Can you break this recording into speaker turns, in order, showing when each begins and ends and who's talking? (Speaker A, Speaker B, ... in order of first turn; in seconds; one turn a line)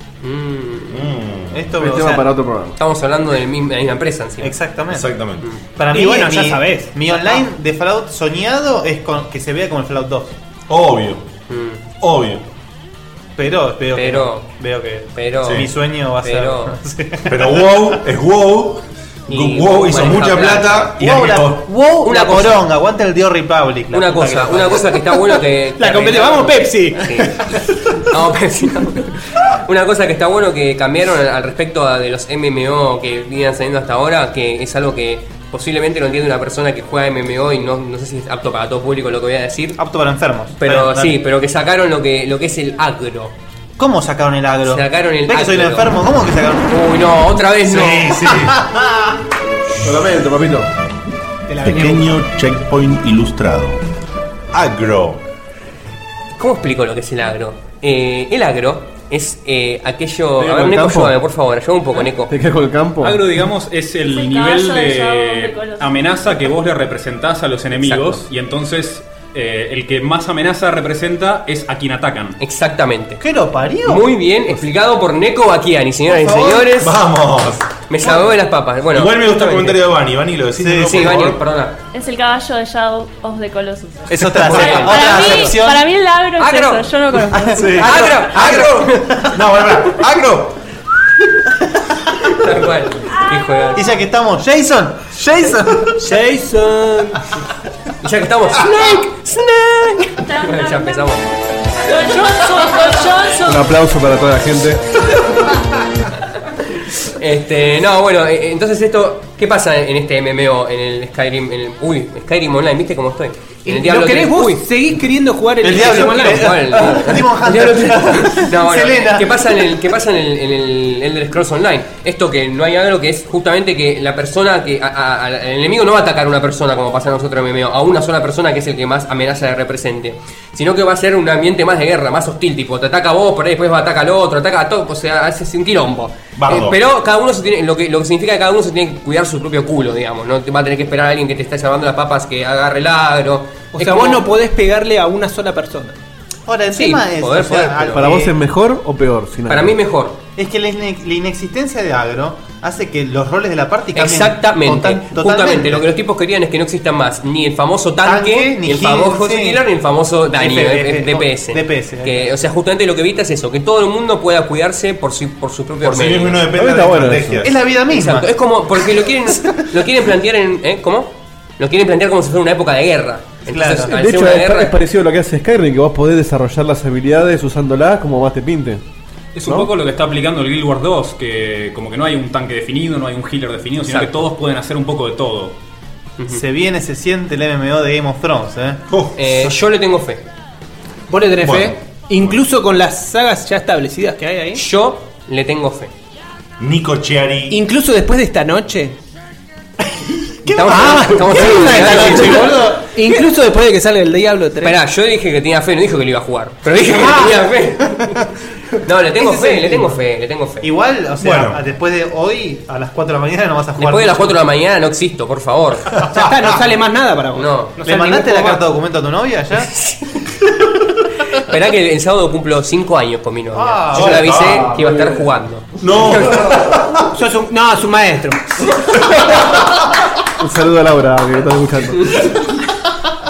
Speaker A: 0.2-1.1
Speaker B: 0.9-1.8
Speaker C: 1.5-2.3
Speaker D: 1.8-2.8
Speaker A: 2.8-4.5
Speaker C: 4.4-5.1
Speaker B: 4.9-5.4
Speaker C: 5.8-10.3
Speaker E: 5.9-7.4
Speaker B: 10.7-11.2
Speaker A: 11.5-11.8
Speaker B: 12.0-12.4
Speaker C: 13.4-18.0
Speaker A: 13.9-14.5
Speaker A: 15.2-16.8
Speaker B: 15.4-15.7
Speaker B: 17.3-21.7
Speaker A: 19.3-21.0
Speaker C: 21.0-25.2
Speaker A: 22.0-22.6
Speaker A: 23.9-27.4
Speaker E: 25.8-27.5
Speaker A: 28.0-39.8
Speaker C: 39.8-41.1
Speaker A: 40.6-43.3
Speaker C: 43.8-46.7
Speaker A: 44.6-46.0
Speaker A: 46.7-48.2
Speaker B: 47.6-48.6
Speaker C: 48.5-48.9
Speaker D: 49.8-50.7
Speaker E: 51.5-52.2
Speaker B: 51.6-53.8
Speaker B: 54.5-55.2
Speaker A: 56.4-62.3
Speaker D: 60.4-61.1
Speaker D: 62.3-63.2
Speaker F: 63.0-72.4
Speaker G: 64.0-65.9
Speaker A: 67.8-68.2
Speaker A: 72.4-73.2
Speaker C: 73.2-74.1
Speaker A: 73.8-77.0
Speaker C: 76.1-76.7
Speaker B: 76.8-77.7
Speaker A: 77.9-79.8
Speaker B: 78.9-81.4
Speaker C: 80.6-81.3
Speaker A: 80.8-81.8
Speaker G: 81.9-87.7
Speaker C: 84.1-85.9
Speaker A: 84.3-85.5
Speaker A: 86.4-86.9
Speaker C: 87.3-89.3
Speaker B: 87.5-90.6
Speaker A: 87.8-89.2
Speaker A: 92.3-93.8
Speaker G: 93.1-93.8
Speaker C: 93.8-96.1
Speaker E: 96.0-97.2
Speaker A: 98.0-101.2
Speaker G: 100.2-101.2
Speaker G: 101.8-103.7
Speaker D: 103.4-104.8
Speaker A: 107.0-114.7
Speaker E: 113.7-116.8
Speaker C: 115.6-119.6
Speaker A: 115.6-144.2
Speaker B: 136.3-136.8
Speaker E: 143.7-145.9
Speaker C: 146.5-148.3
Speaker A: 146.7-148.0
Speaker D: 147.9-149.7
Speaker A: 149.5-150.2
Speaker C: 150.3-155.8
Speaker A: 153.9-166.4
Speaker C: 158.0-159.6
Speaker C: 160.3-162.3
Speaker B: 165.8-167.5
Speaker D: 166.5-167.4
Speaker C: 167.4-168.3
Speaker A: 167.9-174.7
Speaker C: 173.5-173.9
Speaker D: 173.9-178.8
Speaker F: 179.3-185.6
Speaker A: 183.8-184.2
Speaker A: 186.2-186.4
Speaker C: 186.3-188.8
Speaker B: 188.9-189.2
Speaker A: 189.2-190.2
Speaker E: 191.1-194.6
Speaker B: 191.4-192.4
Speaker A: 194.6-195.9
Speaker B: 196.6-197.6
Speaker E: 197.5-198.9
Speaker C: 200.5-200.7
Speaker A: 200.5-202.6
Speaker E: 200.6-204.8
Speaker C: 201.4-202.9
Speaker A: 204.6-208.2
Speaker A: 208.8-210.7
Speaker C: 210.6-214.3
Speaker B: 211.2-211.6
Speaker A: 213.8-216.1
Speaker E: 216.1-218.6
Speaker A: 217.3-217.7
Speaker C: 217.8-219.7
Speaker A: 219.7-220.2
Speaker A: 221.4-226.5
Speaker C: 223.5-224.6
Speaker B: 223.9-224.7
Speaker D: 224.7-225.2
Speaker B: 225.8-227.0
Speaker E: 227.1-228.4
Speaker B: 229.1-229.7
Speaker D: 230.4-232.1